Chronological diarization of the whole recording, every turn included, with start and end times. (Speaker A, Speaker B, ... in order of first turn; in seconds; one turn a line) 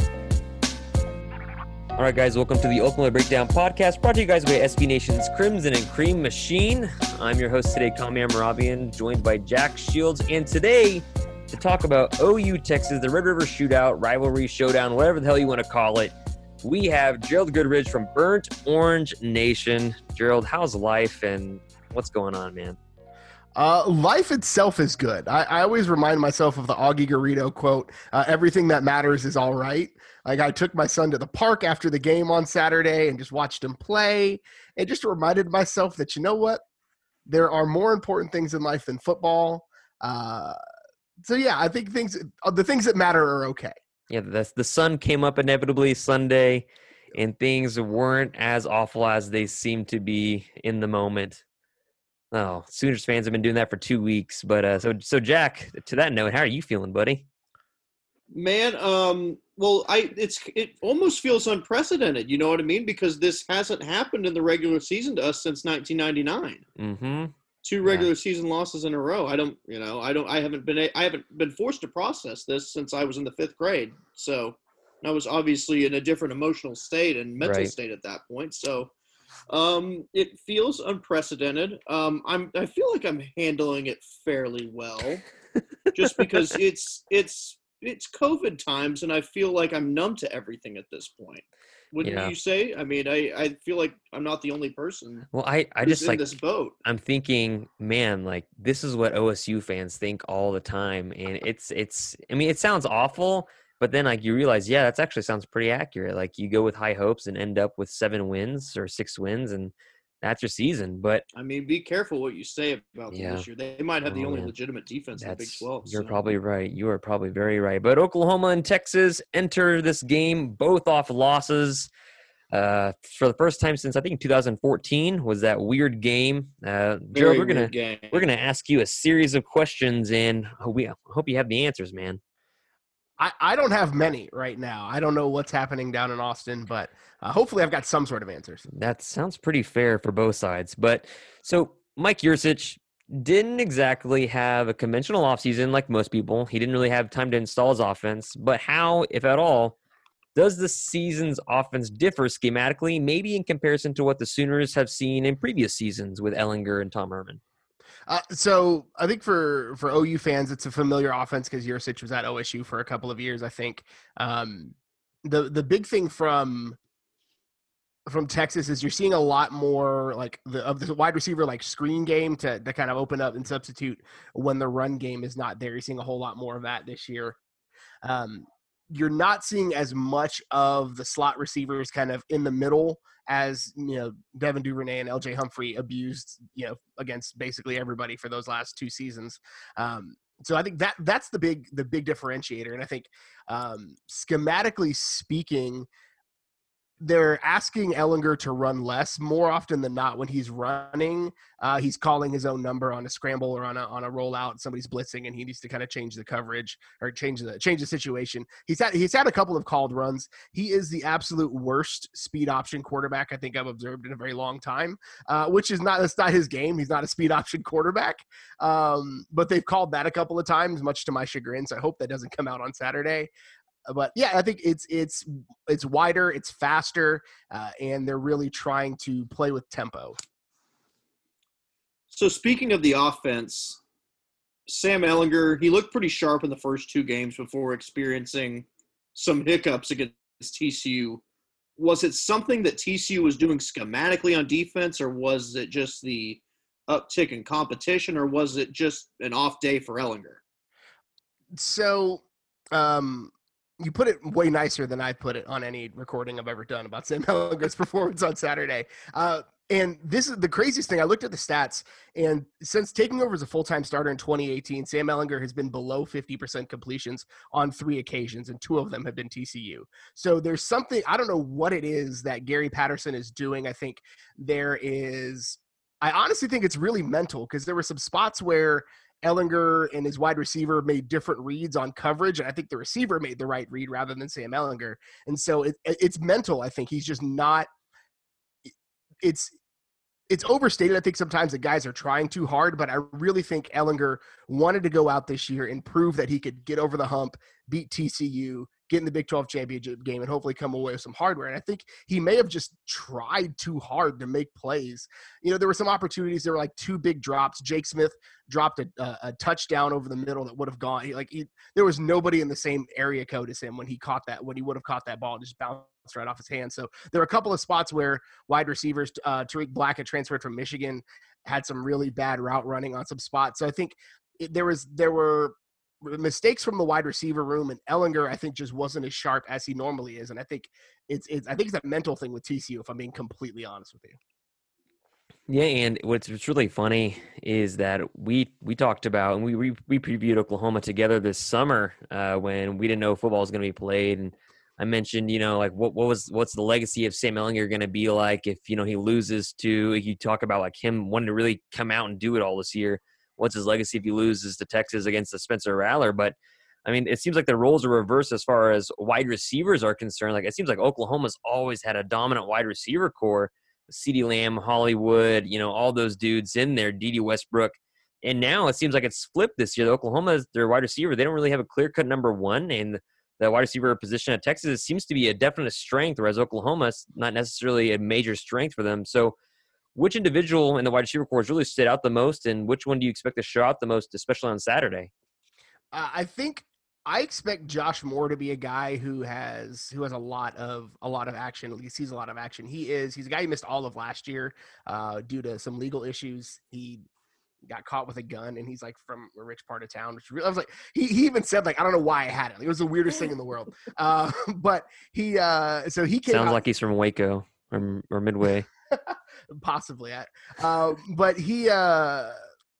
Speaker A: 2.0-22.8
Speaker B: 23.6-36.6
Speaker B: 37.3-40.6
Speaker B: 41.2-43.8
Speaker A: 44.1-51.4
Speaker A: 52.3-57.2
Speaker C: 58.3-66.6
Speaker A: 66.8-67.3
Speaker C: 67.6-78.9
Speaker A: 67.8-68.1
Speaker A: 77.4-77.7
Speaker C: 79.5-85.2
Speaker C: 85.9-95.3
Speaker A: 86.0-86.5
Speaker A: 92.0-92.3
Speaker A: 95.3-96.3
Speaker C: 95.8-96.7
Speaker A: 96.8-111.2
Speaker C: 111.3-116.2
Speaker A: 113.1-113.5
Speaker A: 114.1-114.5
Speaker A: 115.2-121.9
Speaker A: 122.5-132.2
Speaker C: 127.1-128.2
Speaker B: 133.2-138.6
Speaker A: 138.7-149.8
Speaker A: 150.3-157.4
Speaker B: 158.1-166.8
Speaker B: 168.1-177.4
Speaker B: 178.0-195.9
Speaker B: 197.0-223.3
Speaker B: 223.9-230.2
Speaker C: 232.1-233.8
Speaker C: 234.7-241.2
Speaker C: 241.8-250.4
Speaker B: 251.6-287.7
Speaker B: 289.2-289.5
Speaker B: 290.3-334.2
Speaker A: 335.5-379.4
Speaker A: 379.9-385.1
Speaker B: 385.9-397.0
Speaker B: 397.7-406.6
Speaker A: 406.3-408.7
Speaker B: 408.9-412.4